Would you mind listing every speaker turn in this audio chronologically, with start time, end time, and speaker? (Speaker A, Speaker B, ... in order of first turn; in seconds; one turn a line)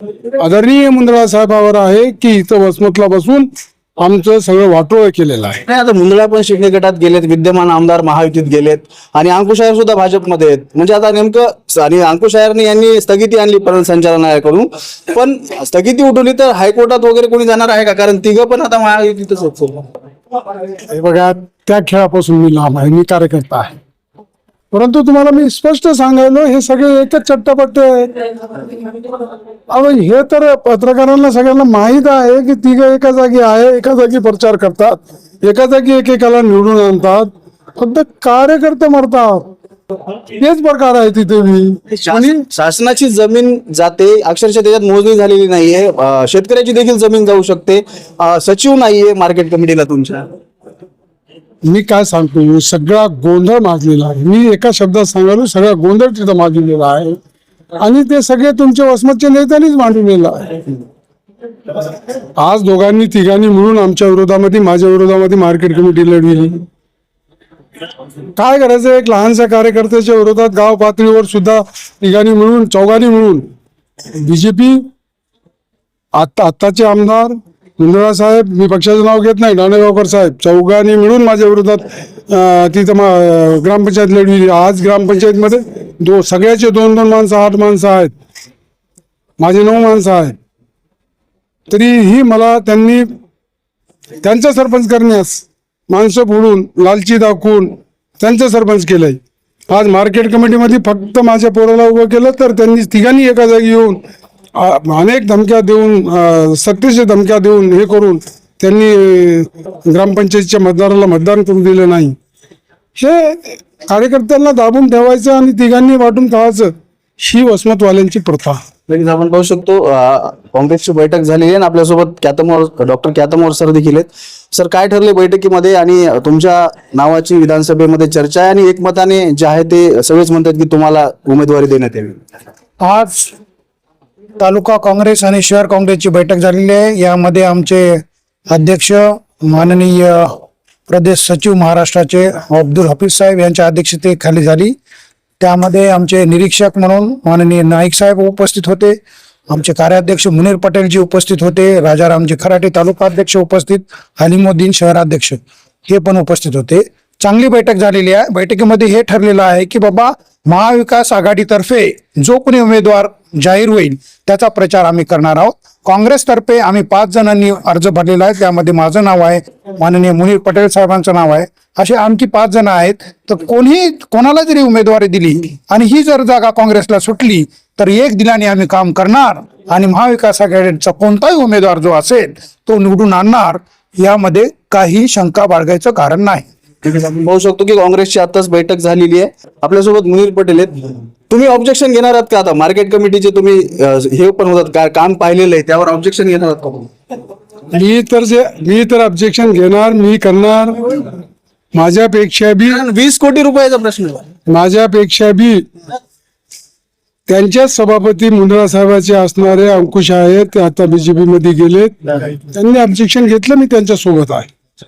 Speaker A: 0.3-5.6
Speaker B: 5.7-19.9
Speaker A: 20.7-23.7
Speaker A: 24.7-39.5
Speaker A: 40.3-42.4
Speaker B: 41.9-50.2
Speaker A: 51.6-57.2
Speaker A: 57.8-60.8
Speaker A: 62.4-66.7
Speaker A: 68.3-73.5
Speaker A: 74.1-74.9
Speaker A: 76.1-88.1
Speaker A: 89.4-90.3
Speaker A: 91.7-93.1
Speaker A: 94.2-104.0
Speaker A: 104.5-112.2
Speaker A: 113.0-118.6
Speaker B: 118.9-132.2
Speaker C: 132.8-133.3
Speaker C: 134.4-140.3
Speaker C: 140.9-144.8
Speaker C: 145.4-148.9
Speaker C: 149.5-186.4
Speaker B: 186.8-196.9
Speaker A: 197.7-201.1
Speaker A: 201.7-202.8
Speaker B: 202.6-204.2
Speaker A: 204.5-205.7
Speaker A: 207.3-214.5